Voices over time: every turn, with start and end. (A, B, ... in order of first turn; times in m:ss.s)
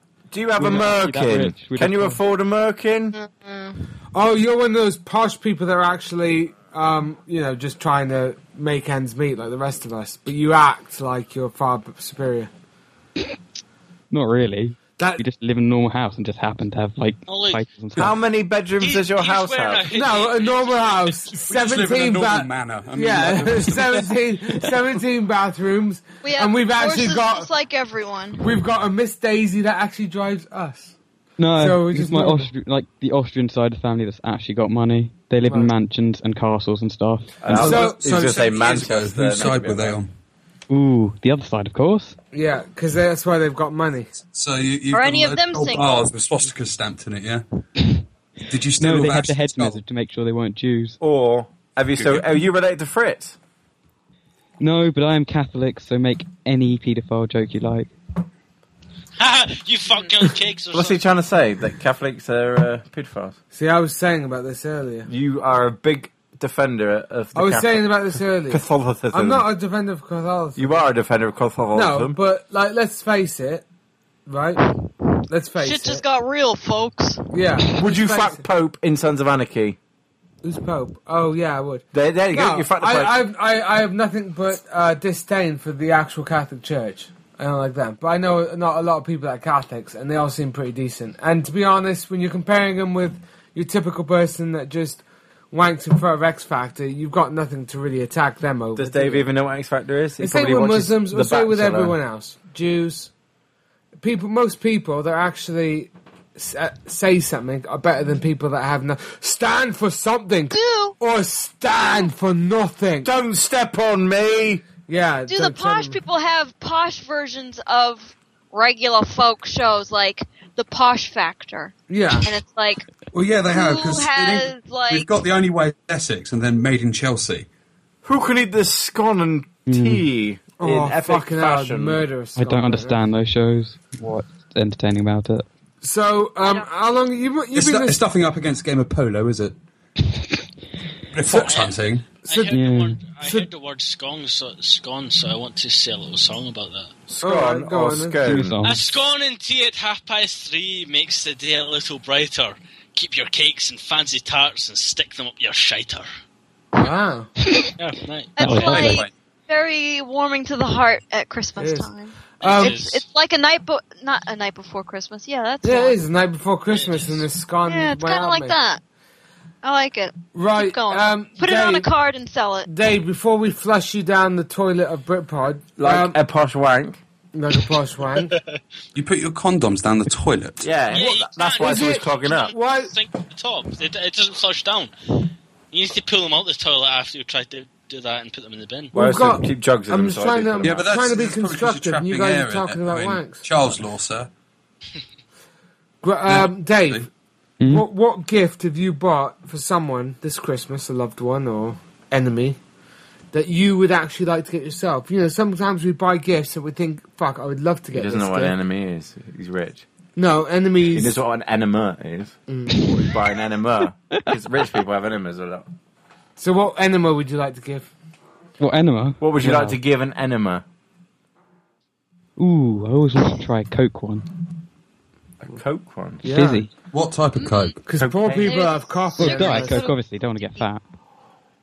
0:00.3-0:03.2 A
0:00.6-0:02.2 B
0:03.1-0:03.8 C
0:04.1-0:12.5 D
0:14.1-0:18.2 B
0:17.3-0:17.6 E
0:18.0-0:19.9 A
0:18.8-0:21.2 E
0:19.9-0:27.5 D
0:21.5-0:24.1 F
0:26.2-0:28.5 C
0:28.4-0:30.9 D
0:31.4-0:37.4 B
0:31.6-0:32.5 D
0:35.5-0:35.7 D
0:37.4-0:40.0 A
0:37.5-0:40.1 F
0:37.6-0:38.8 D
0:40.7-0:42.2 B
0:42.3-0:44.1 D
0:44.2-0:47.4 F
0:44.9-0:46.1 C
0:48.5-0:49.8 F
0:48.8-0:51.0 B
0:51.0-0:53.4 A
0:51.9-0:52.3 F
0:54.6-0:57.9 B
0:59.2-1:01.0 E
1:00.7-1:03.4 A
1:03.5-1:05.1 D
1:05.1-1:09.5 A
1:07.4-1:10.8 D
1:10.6-1:12.2 A
1:11.7-1:13.6 D
1:14.3-1:14.7 D
1:15.3-1:16.0 D
1:15.6-1:17.3 C
1:17.3-1:18.4 D
1:17.8-1:19.8 A
1:20.4-1:39.2 D
1:21.9-1:23.2 A
1:38.8-1:42.0 A
1:40.2-1:43.1 D
1:44.0-1:53.1 D
1:50.5-1:51.0 C
1:53.0-1:54.6 A
1:54.9-1:56.0 D
1:55.3-2:02.9 C
2:01.9-2:02.4 D
2:03.1-2:07.5 F
2:03.5-2:05.1 C
2:08.0-2:12.0 A
2:09.7-2:10.1 B
2:10.6-2:13.0 D
2:12.4-2:15.5 B
2:15.8-2:18.0 D
2:16.4-2:16.7 C
2:17.5-2:19.6 F
2:21.1-2:22.1 F
2:21.3-2:21.5 D
2:21.4-2:26.9 E
2:22.2-2:22.5 D
2:22.5-2:23.0 B
2:23.2-2:23.5 D
2:27.1-2:28.6 A
2:27.2-2:28.2 D
2:28.2-2:28.8 B
2:28.6-2:36.1 E
2:36.8-2:37.3 D
2:37.8-2:39.0 E
2:38.4-2:46.0 C
2:38.4-2:39.0 B
2:38.4-2:39.1 F
2:41.6-2:42.8 D
2:42.4-2:43.0 E
2:45.6-2:48.6 D
2:46.7-2:47.3 E
2:47.7-2:48.8 C
2:49.6-2:52.7 C
2:50.3-2:51.9 D
2:52.7-2:56.2 D
2:55.8-2:57.0 A
2:57.3-2:58.3 D
2:59.0-3:00.7 F
3:00.6-3:02.5 A
3:00.9-3:04.9 E
3:01.6-3:02.9 D
3:05.7-3:08.9 E
3:08.9-3:10.8 A
3:08.9-3:13.5 D
3:10.6-3:14.3 F
3:16.0-3:17.1 D
3:16.3-3:17.1 F
3:17.6-3:17.9 B
3:17.7-3:22.6 D
3:23.3-3:28.5 D
3:27.9-3:29.8 A
3:30.2-3:31.2 D
3:30.9-3:35.7 A
3:32.5-3:32.9 D
3:36.4-3:37.9 D
3:38.6-3:39.8 B
3:39.2-3:40.6 A
3:42.4-3:44.3 B
3:45.4-3:46.2 A
3:46.2-3:46.6 D
3:46.2-3:46.7 B
3:46.9-3:47.8 F
3:47.4-3:47.7 C
3:47.8-3:49.8 D
3:48.0-3:48.6 A
3:48.4-3:50.7 C
3:49.2-3:50.8 B